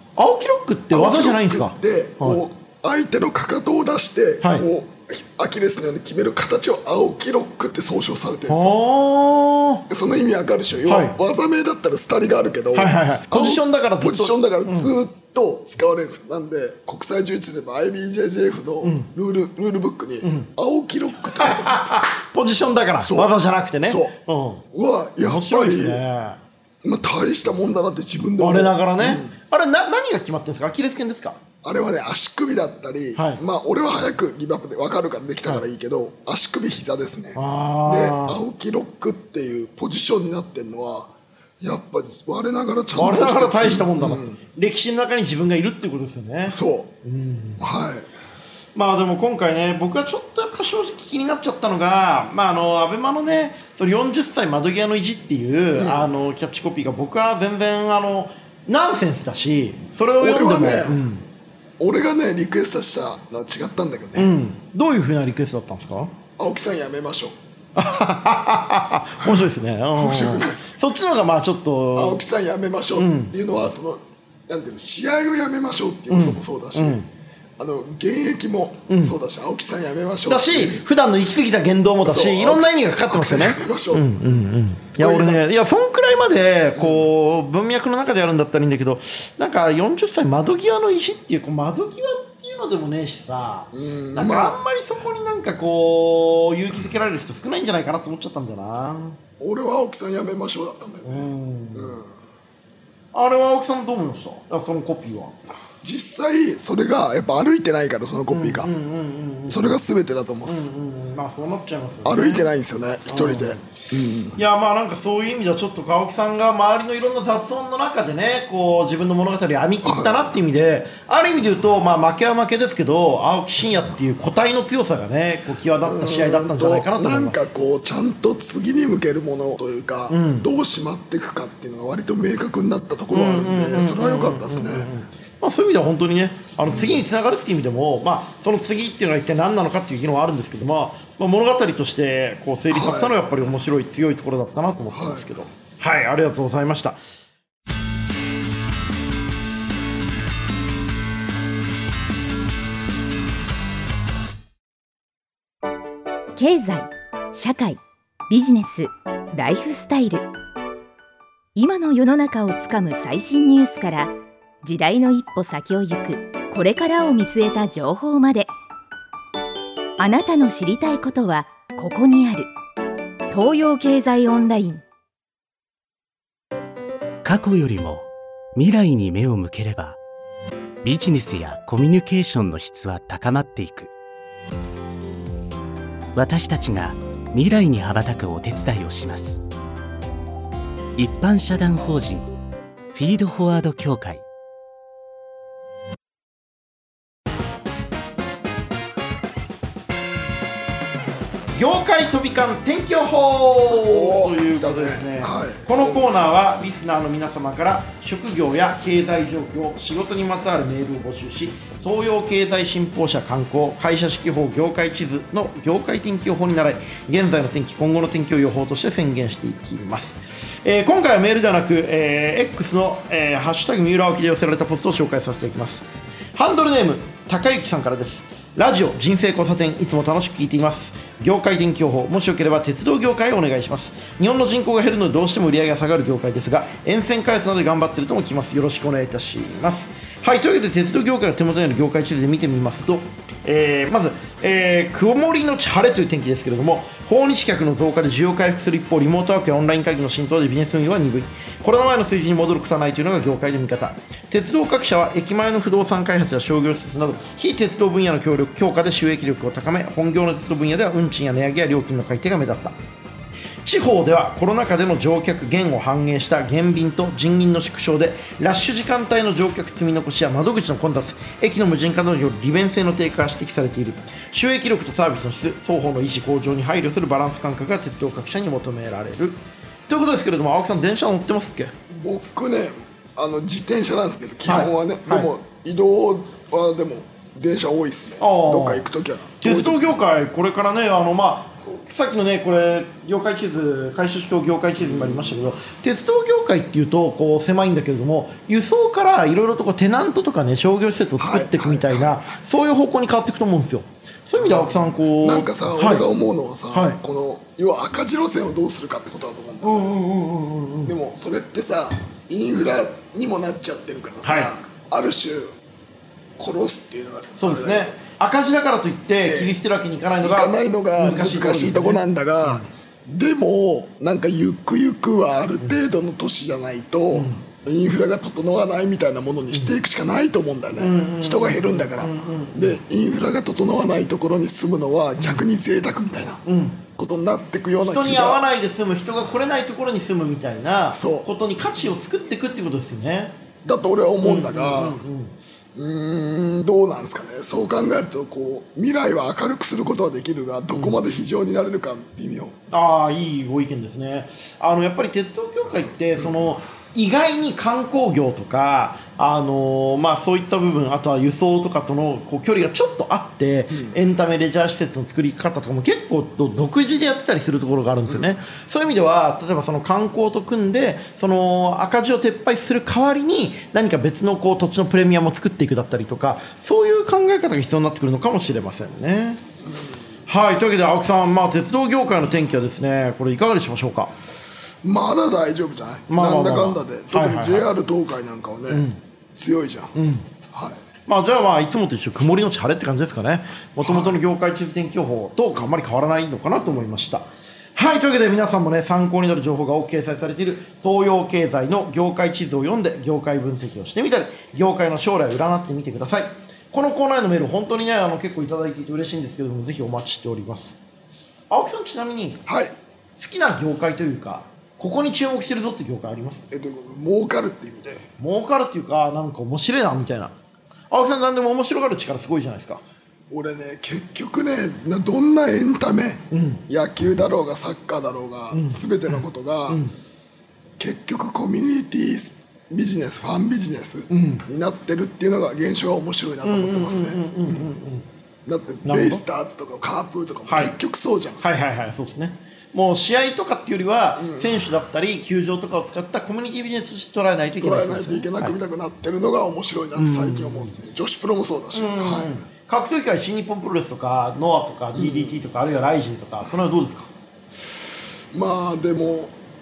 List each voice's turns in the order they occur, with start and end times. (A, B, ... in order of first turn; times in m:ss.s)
0:00.2-0:02.4 A
0:00.9-0:08.8 B
0:08.5-0:09.9 A
0:09.9-0:22.0 B
0:10.9-0:11.2 A
0:12.7-0:14.9 A
0:18.8-0:19.1 A
0:20.2-0:20.5 A
0:21.4-0:24.7 A
0:23.0-0:23.3 B
0:23.8-0:24.1 B
0:24.7-0:26.0 B
0:25.2-0:26.4 A
0:26.8-0:29.3 B
0:28.4-0:31.4 A
0:31.6-0:44.4 B
0:33.2-0:33.4 A
0:37.4-0:38.4 A
0:43.0-0:47.6 A
0:46.5-0:46.9 B
0:47.6-0:48.1 B
0:48.8-1:01.3 A
0:55.8-0:56.1 B
1:00.2-1:01.1 B
1:01.8-1:04.3 B
1:04.2-1:06.1 A
1:06.4-1:07.4 B
1:07.8-1:12.2 A
1:10.0-1:10.6 B
1:12.0-1:17.0 B
1:13.0-1:13.3 A
1:16.1-1:17.1 A
1:17.6-1:20.8 B
1:18.9-1:19.2 A
1:20.3-1:39.2 A
1:22.0-1:24.1 B
1:25.0-1:25.4 B
1:26.8-1:27.1 B
1:33.7-1:34.6 B
1:39.4-1:42.1 B
1:41.0-1:42.0 A
1:43.1-1:45.4 A
1:45.8-1:48.7 B
1:48.3-1:49.8 A
1:49.5-1:50.7 B
1:50.5-1:52.5 A
1:52.0-1:54.4 B
1:53.1-1:53.7 A
1:54.4-2:07.6 A
1:59.8-2:00.4 B
2:05.8-2:14.9 B
2:10.1-2:10.5 A
2:13.1-2:27.0 A
2:16.7-2:17.0 B
2:22.7-2:23.2 B
2:24.9-2:25.3 B
2:36.4-2:40.3 C
2:41.6-2:48.5 C
2:50.0-2:52.5 C
2:53.3-2:54.8 C
2:57.2-3:00.0 D
3:00.8-3:03.9 D
3:06.1-3:09.4 D
3:11.0-3:12.3 D
3:12.9-3:14.2 D
3:21.5-4:22.8 A
3:23.7-3:26.1 B
4:23.6-4:39.4 A
4:39.9-4:41.7 A
4:41.9-4:49.9 B
4:44.5-4:45.3 A
4:48.2-4:48.9 A
4:49.4-5:06.1 A
4:54.8-4:55.5 B
5:01.2-5:02.3 B
5:04.4-5:09.9 B
5:06.7-5:07.0 A
5:09.6-5:11.0 A
5:10.8-5:15.5 B
5:14.2-5:14.5 A
5:16.4-5:18.0 B
5:17.4-5:22.7 A
5:19.2-5:19.5 B
5:20.2-5:38.4 B
5:27.1-5:27.4 A
5:30.8-5:32.8 A
5:36.5-5:36.8 A
5:37.8-5:43.4 A
5:41.0-5:41.3 B
5:43.6-5:45.0 B
5:44.2-5:45.4 A
5:45.8-5:52.6 B
5:52.7-6:19.4 A
6:03.7-6:04.0 B
6:08.1-6:08.4 B
6:19.7-6:19.9 B
6:20.3-6:24.1 A
6:24.8-6:29.9 B
6:26.1-6:27.7 A
6:28.7-6:29.0 A
6:30.0-6:30.3 A
6:30.5-6:30.8 B
6:31.1-6:50.8 A
6:33.8-6:34.2 B
6:51.5-6:52.4 A
6:52.5-6:52.8 B
6:53.2-6:56.4 A
6:56.5-6:58.1 B
6:58.2-7:00.3 A
7:00.9-7:02.8 A
7:03.3-7:09.8 B
7:06.3-7:06.6 A
7:08.5-7:09.9 A
7:10.8-7:17.6 B
7:14.1-7:14.4 A
7:16.4-7:18.1 A
7:18.5-7:21.4 B
7:18.8-7:19.2 A
7:20.5-7:20.8 A
7:21.4-7:28.6 A
7:24.2-7:24.6 B
7:27.6-7:32.4 B
7:30.0-7:30.8 A
7:31.7-7:37.1 A
7:34.9-7:35.4 B
7:38.3-7:39.4 B